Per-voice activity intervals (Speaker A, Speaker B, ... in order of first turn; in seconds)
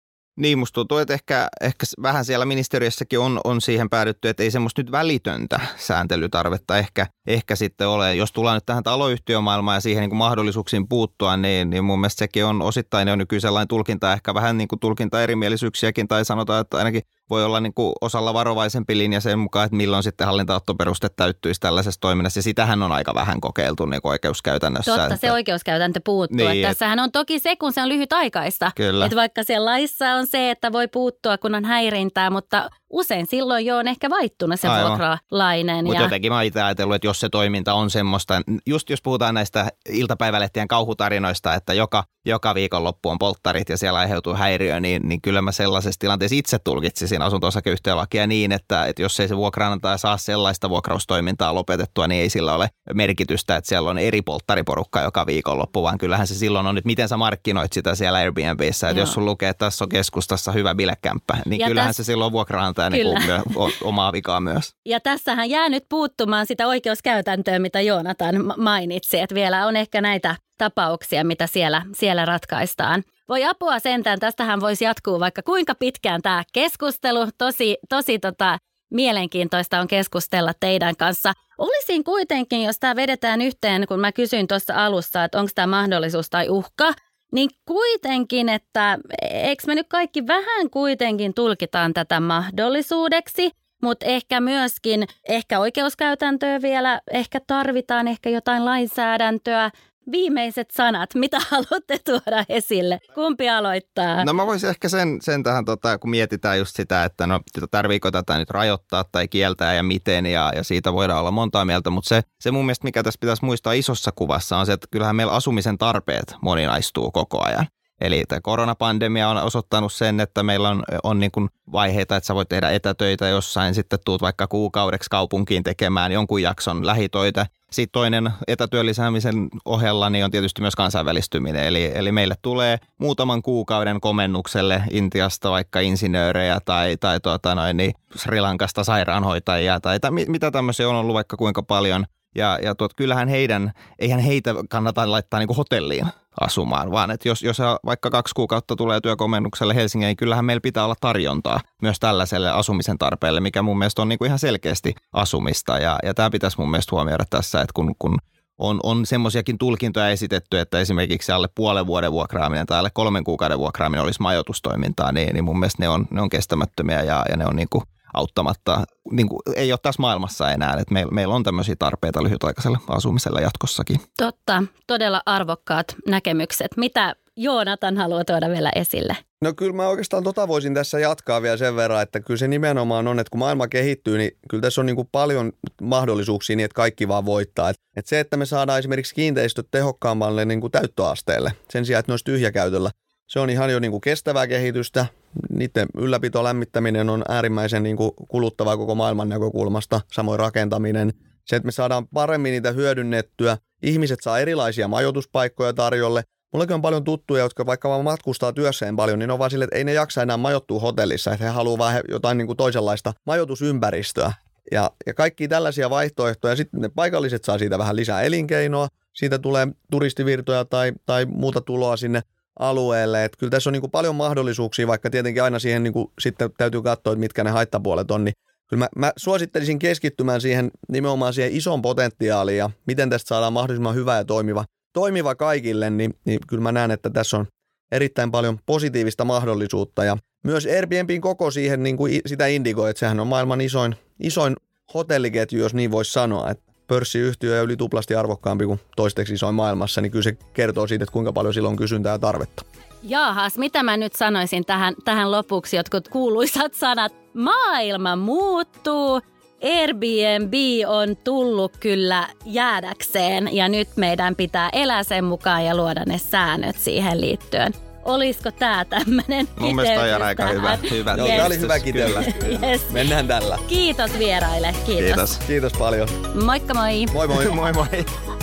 Speaker A: 0.4-25.3, 26.3-26.8, 28.8-29.1, 34.6-35.0, 35.9-64.7, 104.2-174.0, 269.6-272.4, 275.0-275.4, 277.3-278.1
Speaker B: 24.9-36.1, 58.9-59.1, 61.6-61.9, 62.9-63.7, 64.8-104.3, 174.2-179.2, 253.0-271.6, 272.1-273.1, 273.6-275.2, 276.3-277.2
Speaker C: 179.4-252.6, 271.1-273.6, 275.4-276.1, 277.1-277.6